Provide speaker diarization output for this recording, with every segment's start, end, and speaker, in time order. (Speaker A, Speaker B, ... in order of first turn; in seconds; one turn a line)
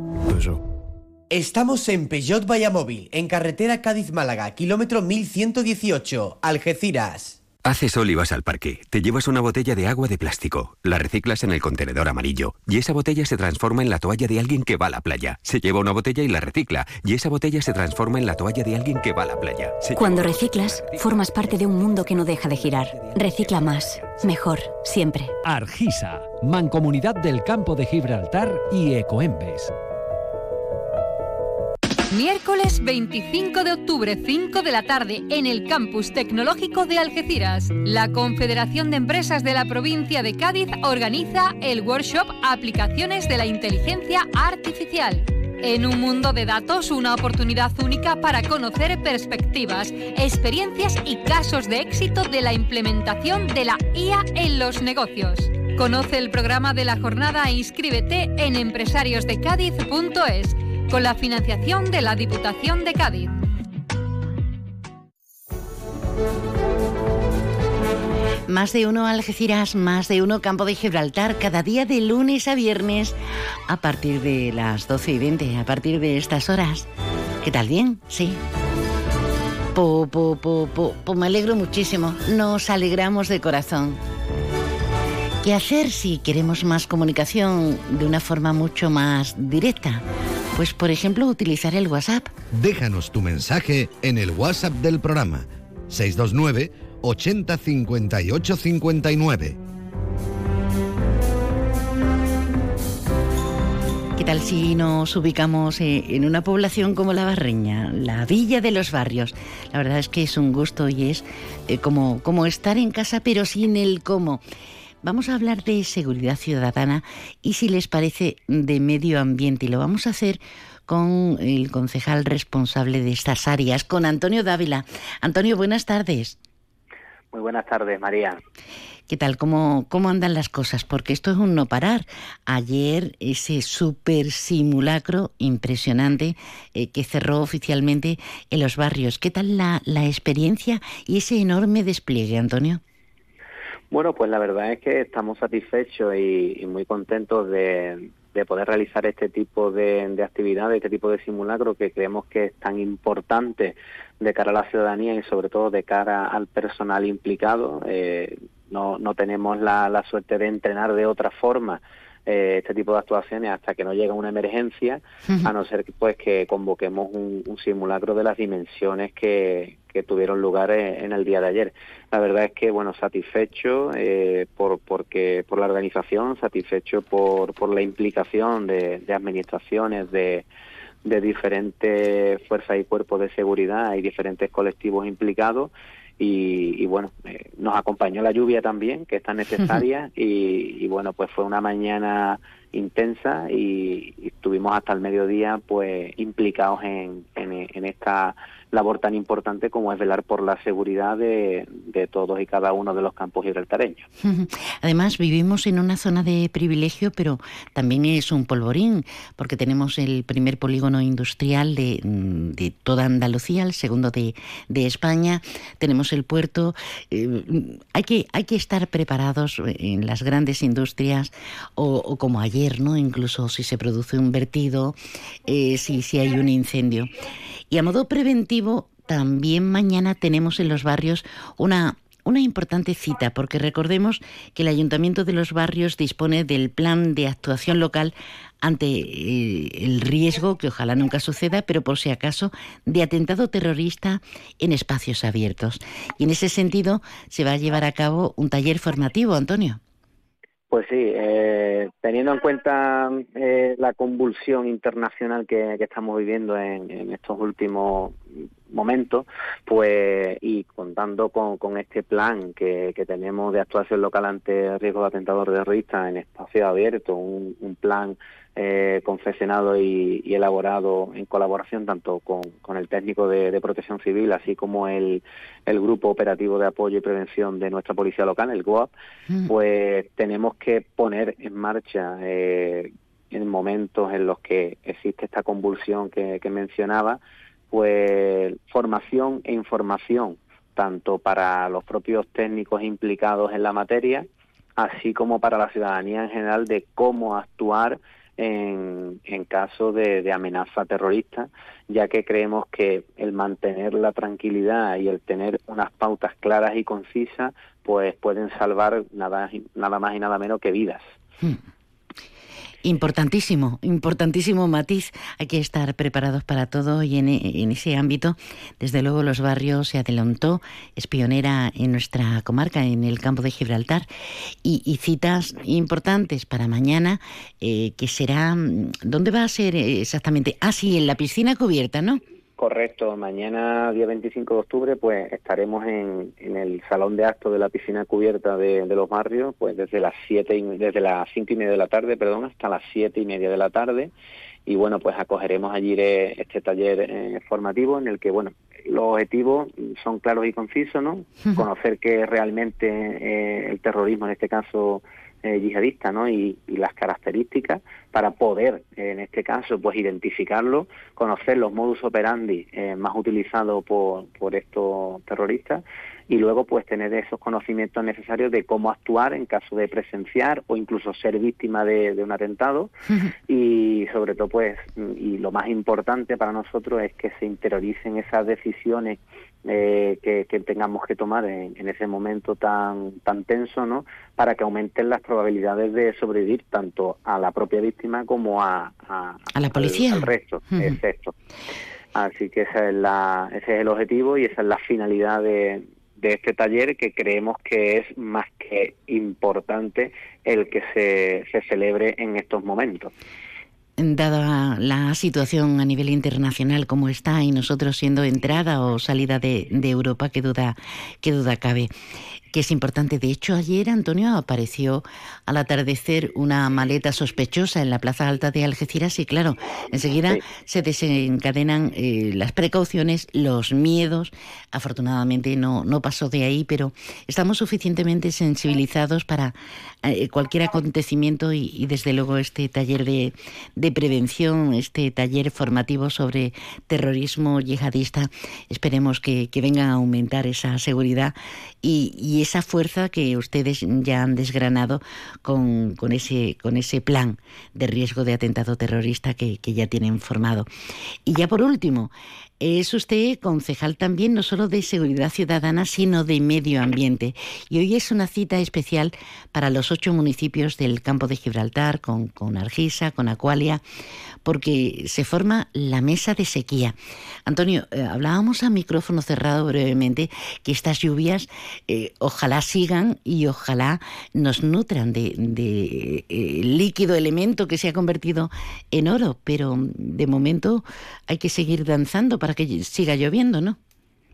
Speaker A: 1.3-7.4
Speaker B: 7.6-20.6
Speaker C: 19.9-25.3
Speaker D: 25.4-29.7
Speaker E: 32.1-63.3
Speaker F: 68.5-73.1
Speaker F: 73.7-76.9
Speaker F: 77.4-78.4
Speaker F: 79.7-84.0
Speaker F: 85.4-92.3
Speaker G: 92.5-99.6
Speaker F: 104.2-114.4
Speaker F: 115.0-126.4
Speaker H: 127.3-128.4
Speaker F: 129.1-142.8
Speaker H: 143.9-180.4
Speaker H: 181.0-204.1
Speaker F: 204.2-224.9
Speaker F: 225.5-227.1
Speaker F: 227.7-249.8
Speaker H: 250.7-278.9
Speaker H: 279.5-287.2
Speaker H: 287.7-294.2
Speaker H: 294.8-311.0
Speaker F: 312.8-324.1
Speaker F: 324.6-332.2
Speaker H: 332.6-344.1
Speaker H: 344.6-372.9
Speaker H: 373.5-391.3
Speaker F: 389.5-390.9
Speaker H: 392.1-403.1
Speaker F: 404.0-411.9
Speaker F: 412.5-450.7
Speaker F: 451.2-463.8
Speaker F: 464.4-483.8